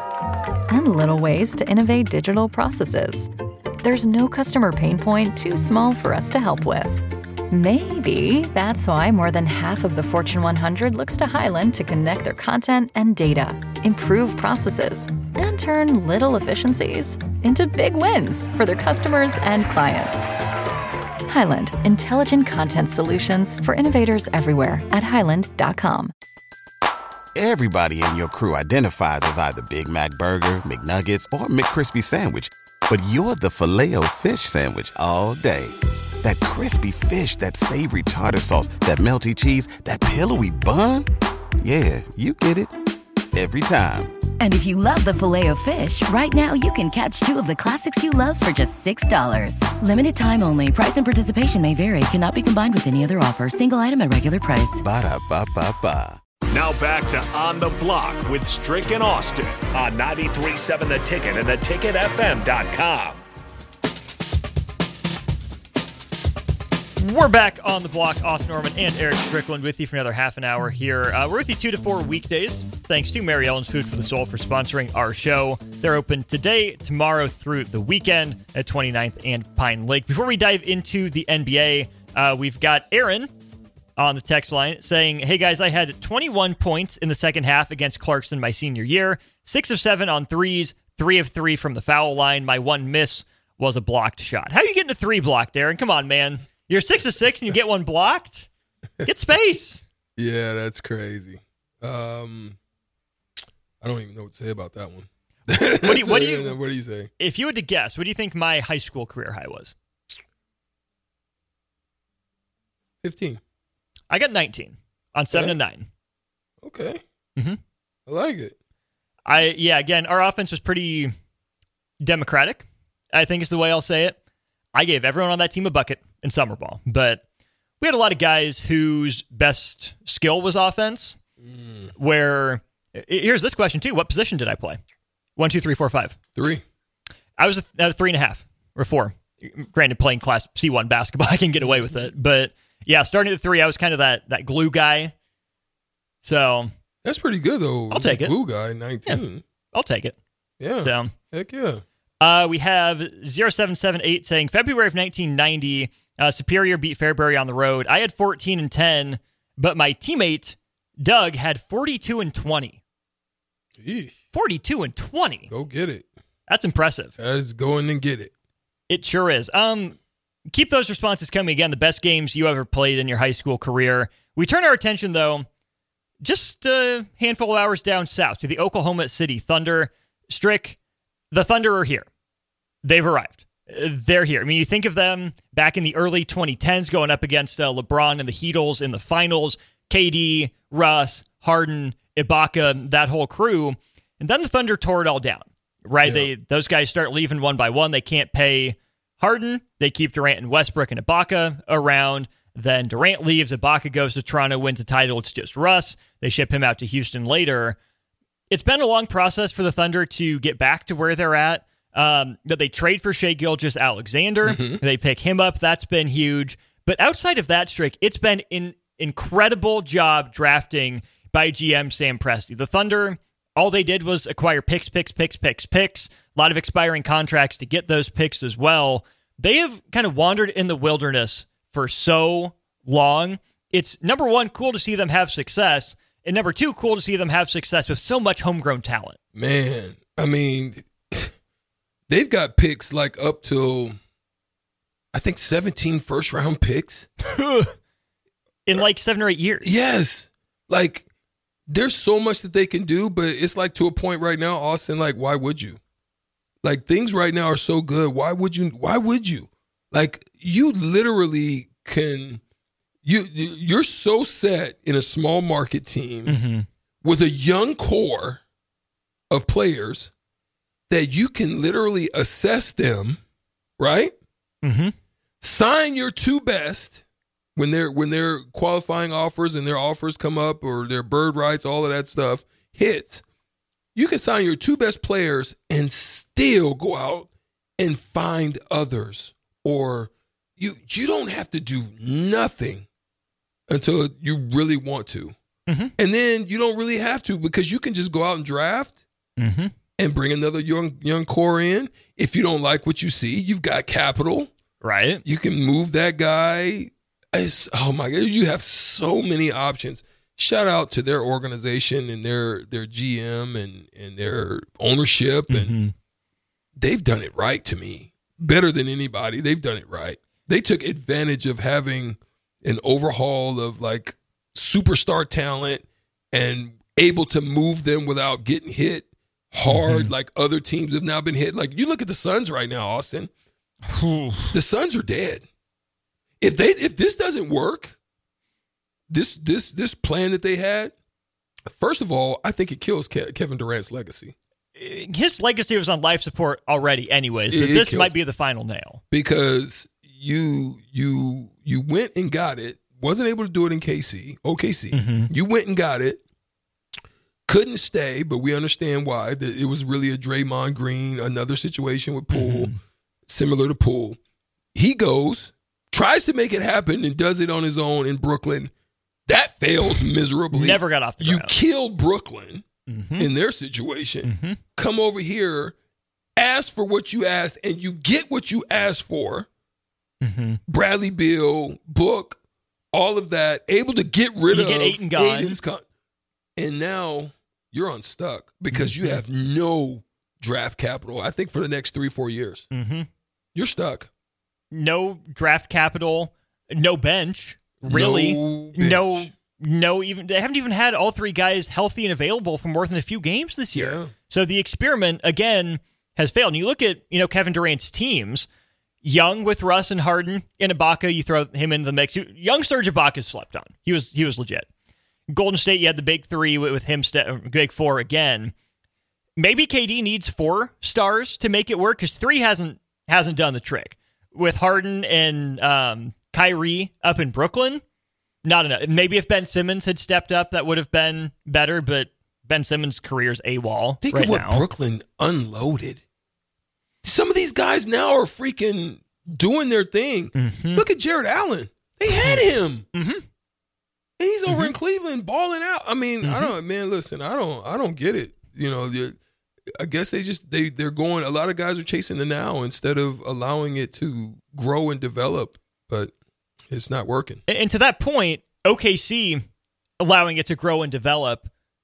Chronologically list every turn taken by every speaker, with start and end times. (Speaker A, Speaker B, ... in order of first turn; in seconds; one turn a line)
Speaker A: 0.7-3.3
Speaker A: 3.8-20.3
Speaker A: 21.3-26.1
Speaker B: 27.3-41.1
Speaker B: 41.6-42.7
Speaker B: 43.3-44.1
Speaker C: 44.4-54.8
Speaker B: 54.8-56.2
Speaker D: 56.5-63.2
Speaker E: 67.0-83.3
Speaker E: 84.0-98.5
Speaker E: 99.0-99.8
Speaker F: 100.2-102.6
Speaker F: 103.8-107.1
Speaker E: 105.8-106.6
Speaker E: 107.2-109.8
Speaker F: 113.0-113.4
Speaker E: 114.1-115.9
Speaker F: 116.6-117.0
Speaker F: 118.1-118.5
Speaker E: 119.2-121.1
Speaker E: 122.0-124.2
Speaker E: 124.7-127.2
Speaker E: 127.8-131.2
Speaker F: 131.4-131.9
Speaker E: 131.9-134.8
Speaker E: 135.4-136.1
Speaker F: 136.3-136.6
Speaker E: 137.4-145.1
Speaker E: 146.2-146.7
Speaker F: 147.0-149.4
Speaker E: 147.9-148.4
Speaker E: 149.7-150.2
Speaker F: 150.6-151.8
Speaker E: 150.8-151.1
Speaker E: 152.2-162.8
Speaker F: 163.8-164.2
Speaker E: 164.3-165.5
Speaker F: 165.5-166.1
Speaker E: 166.5-167.1
Speaker F: 167.2-168.3
Speaker E: 168.9-170.0
Speaker E: 170.5-175.4
Speaker E: 176.2-180.8
Speaker E: 181.3-182.1
Speaker E: 182.8-207.8
Speaker F: 196.0-196.3
Speaker E: 208.5-239.2
Speaker F: 214.4-214.8
Speaker F: 239.3-241.3
Speaker F: 242.1-244.0
Speaker F: 245.1-247.1
Speaker E: 247.3-247.7
Speaker E: 248.7-249.7
Speaker F: 249.6-251.1
Speaker F: 251.7-255.8
Speaker F: 256.6-262.4
Speaker F: 263.0-266.4
Speaker E: 266.2-266.6
Speaker F: 267.0-268.4
Speaker F: 269.3-270.1
Speaker F: 270.9-273.2
Speaker F: 273.8-274.1
Speaker E: 274.6-274.9
Speaker F: 275.4-277.0
Speaker F: 277.6-283.2
Speaker F: 283.9-292.9
Speaker F: 293.7-295.3
Speaker F: 296.0-299.0
Speaker E: 299.4-299.7
Speaker F: 300.0-304.5
Speaker E: 304.8-305.2
Speaker F: 305.2-315.8
Speaker E: 315.5-315.9
Speaker F: 316.8-333.3
Speaker E: 329.7-330.1
Speaker E: 333.9-334.4
Speaker F: 334.5-335.4
Speaker F: 336.4-338.0
Speaker F: 339.1-340.9
Speaker F: 341.7-344.3
Speaker E: 344.8-349.0
Speaker F: 347.5-348.1
Speaker F: 349.1-356.2
Speaker E: 354.9-355.3
Speaker F: 357.5-362.7
Speaker E: 362.3-362.7
Speaker F: 363.3-364.2
Speaker F: 364.7-368.7
Speaker F: 369.3-372.6
Speaker E: 370.5-371.5
Speaker E: 372.9-373.3
Speaker F: 373.2-375.7
Speaker E: 374.2-374.6
Speaker F: 376.4-379.5
Speaker E: 380.2-380.6
Speaker F: 380.7-382.4
Speaker F: 382.9-385.8
Speaker E: 384.5-385.6
Speaker F: 386.6-392.7
Speaker E: 388.7-389.2
Speaker E: 392.7-393.1
Speaker F: 393.5-394.1
Speaker E: 394.7-408.5
Speaker F: 397.9-399.3
Speaker F: 403.7-404.1
Speaker E: 409.0-414.7
Speaker E: 415.3-418.5
Speaker E: 419.4-427.8
Speaker E: 428.4-434.6
Speaker F: 434.0-436.0
Speaker F: 437.0-442.9
Speaker E: 440.4-440.8
Speaker E: 442.1-442.4
Speaker E: 442.9-443.2
Speaker F: 444.2-449.2
Speaker E: 444.5-444.7
Speaker E: 446.2-446.5
Speaker F: 449.8-456.1
Speaker F: 456.7-457.4
Speaker E: 457.5-459.4
Speaker E: 460.0-461.5